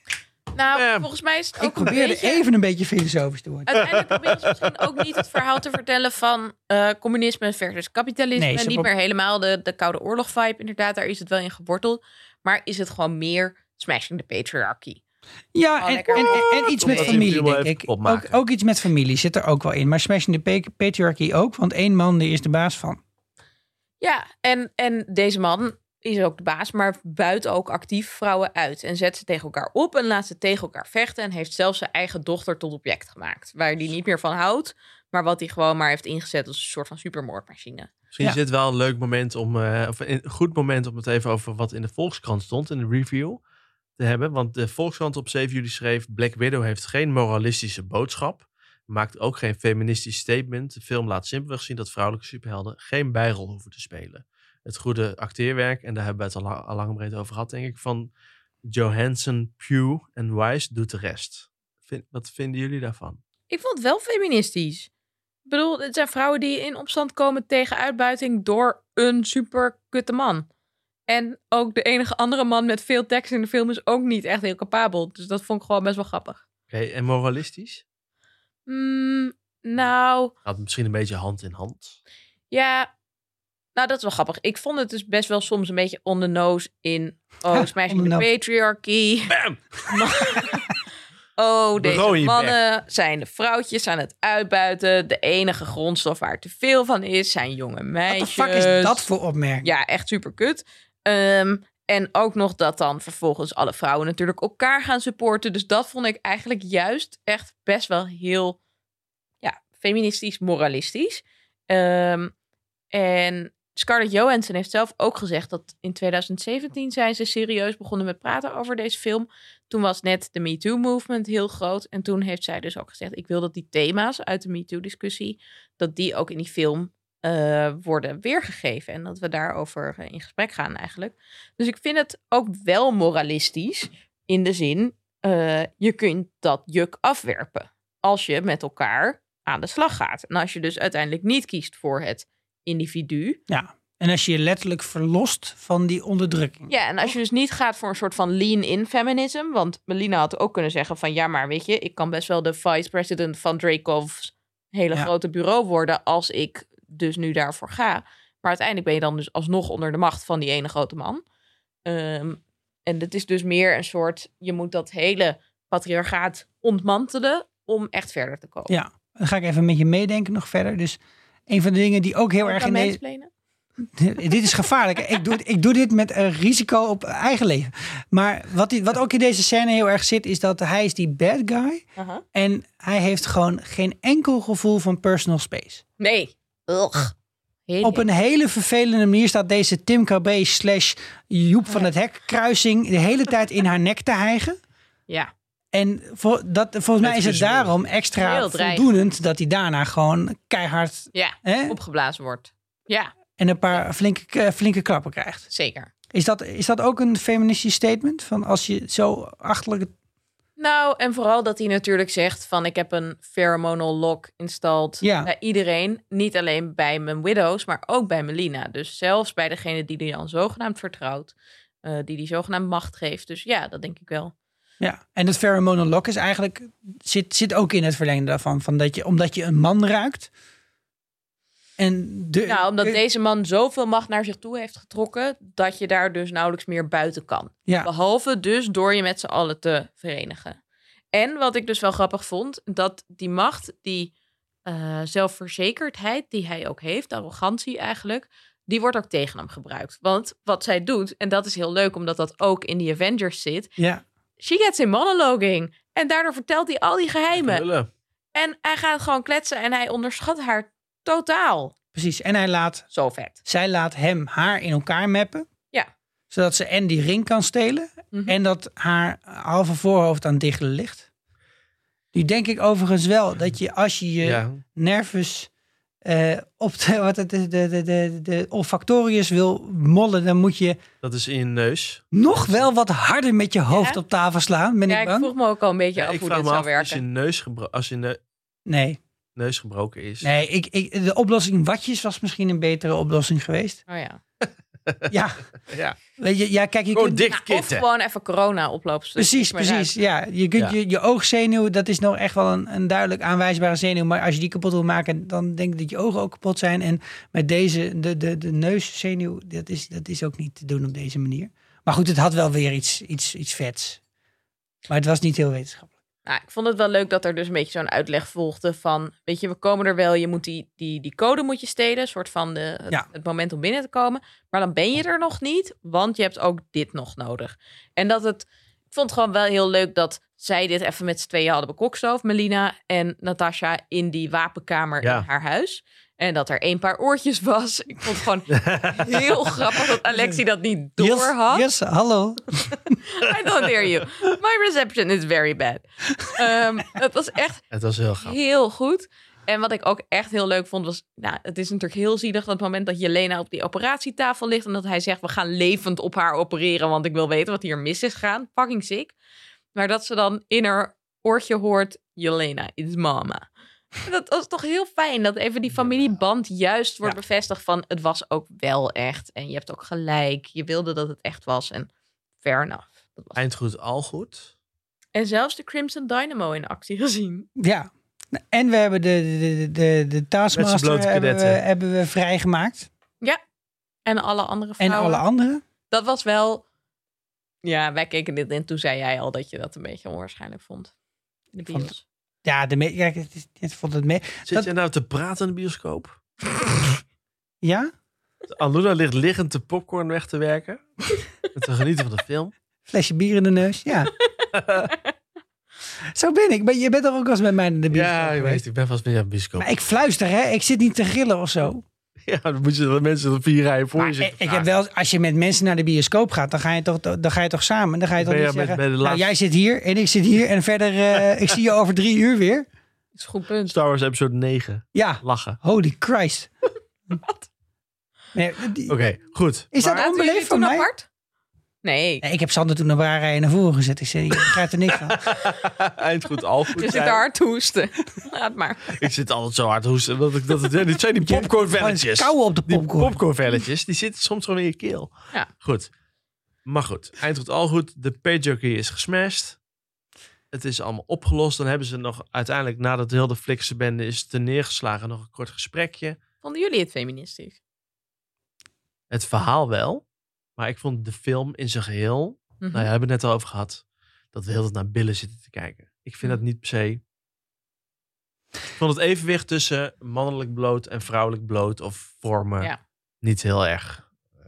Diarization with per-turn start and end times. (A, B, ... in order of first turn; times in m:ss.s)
0:00.5-0:02.4 A
0:00.7-0:01.0 B
0:01.6-0:03.8 C
0:03.7-0:15.0 A
0:04.0-0:04.7 B
0:08.4-0:08.9 C
0:15.5-0:23.0 C
0:15.8-0:17.3 A
0:16.8-0:18.3 B
0:24.0-0:37.9 A
0:38.1-0:43.4 B
0:44.0-0:58.1 B
0:58.7-1:03.2 B
1:03.5-1:04.9 A
1:05.5-1:10.5 A
1:11.1-1:16.4 A
1:16.7-1:17.8 B
1:18.7-1:20.3 A
1:20.4-1:22.0 B
1:22.5-1:22.9 A
1:23.7-1:29.3 A
1:27.5-1:28.2 C
1:29.3-1:30.0 B
1:29.9-1:30.8 A
1:31.4-1:39.0 A
1:31.8-1:32.6 B
1:38.1-1:39.7 C
1:39.6-1:48.6 A
1:49.4-1:52.3 A
1:52.9-2:23.4 A
2:23.5-2:27.1 C
2:26.7-2:41.2 A
2:41.8-2:48.7 A
2:48.7-2:53.0 C
2:52.4-2:53.3 A
2:53.9-3:01.8 C
3:02.0-3:02.2 A
3:02.3-3:05.8 C
3:06.0-3:07.1 A
3:07.7-3:08.1 A
3:07.8-3:14.6 C
3:15.7-3:21.8 C
3:17.0-3:17.9 B
3:18.2-3:18.9 A
3:21.1-3:23.1 A
3:23.4-3:25.5 C
3:25.5-3:25.9 A
3:26.1-3:29.9 C
3:30.6-3:44.3 A
3:35.0-3:35.3 C
3:44.8-3:50.3 C
3:51.8-3:53.0 C
3:52.4-4:00.6 A
4:01.1-4:04.1 A
4:04.6-4:13.7 A
4:13.8-4:14.0 C
4:14.4-4:17.6 A
4:17.3-4:17.9 B
4:18.3-4:21.7 A
4:21.9-4:22.8 C
4:22.9-4:23.4 A
4:23.4-4:25.5 C
4:26.3-4:31.1 C
4:28.1-4:28.4 A
4:32.1-4:35.5 C
4:34.2-4:34.6 B
4:36.0-4:40.8 C
4:41.0-4:42.7 B
4:42.1-4:45.3 C
4:43.7-4:44.0 A
4:44.9-4:47.0 A
4:46.0-4:48.2 B
4:48.6-4:49.0 C
4:49.4-4:50.3 B
4:50.2-4:53.8 C
4:53.9-4:54.2 A
4:54.4-4:55.1 B
4:55.1-4:55.4 C
4:55.7-4:56.0 B
4:56.2-4:57.2 C
4:56.9-4:57.8 B
4:57.3-4:59.9 A
4:59.2-5:14.0 C
5:14.9-5:15.9 C
5:16.2-5:41.7 A
5:35.0-5:35.2 B
5:38.5-5:39.4 B
5:41.0-5:43.0 C
5:43.0-5:47.6 A
5:47.7-5:48.4 B
5:48.2-5:59.1 A
5:59.7-6:03.4 A
6:04.0-6:11.9 A
6:05.7-6:06.1 B
6:12.4-6:13.4 A
6:13.4-6:14.5 B
6:15.1-6:17.5 A
6:17.6-6:22.9 C
6:20.5-6:21.6 B
6:24.0-6:25.2 A
6:24.8-6:25.6 C
6:25.9-6:26.6 A
6:27.6-6:30.9 A
6:31.5-6:32.0 A
6:32.4-6:34.7 C
6:34.4-6:36.2 B
6:37.6-6:37.9 C
6:38.5-6:40.9 B
6:41.5-6:42.5 B
6:42.9-6:44.1 C
6:44.5-6:44.9 B
6:46.1-6:48.6 C
6:47.9-6:49.7 B
6:49.6-6:51.8 C
6:52.3-6:54.7 B
6:54.0-7:02.7 C
6:58.2-6:59.3 B
7:03.2-7:03.7 A
7:03.7-7:05.6 B
7:04.9-7:06.5 C
7:07.2-7:07.5 A
7:08.3-7:08.9 C
7:08.9-7:09.7 B
7:09.7-7:10.9 C
7:09.8-7:11.0 A
7:11.8-7:12.2 A
7:12.2-7:15.3 C
7:15.2-7:17.2 B
7:16.8-7:19.0 A
7:18.9-7:25.9 B
7:21.2-7:23.2 C
7:26.6-7:29.6 B
7:30.5-7:36.2 B
7:36.4-7:37.6 A
7:39.1-7:40.0 B
7:40.6-7:47.0 B
7:42.6-7:42.9 A
7:48.8-7:54.0 B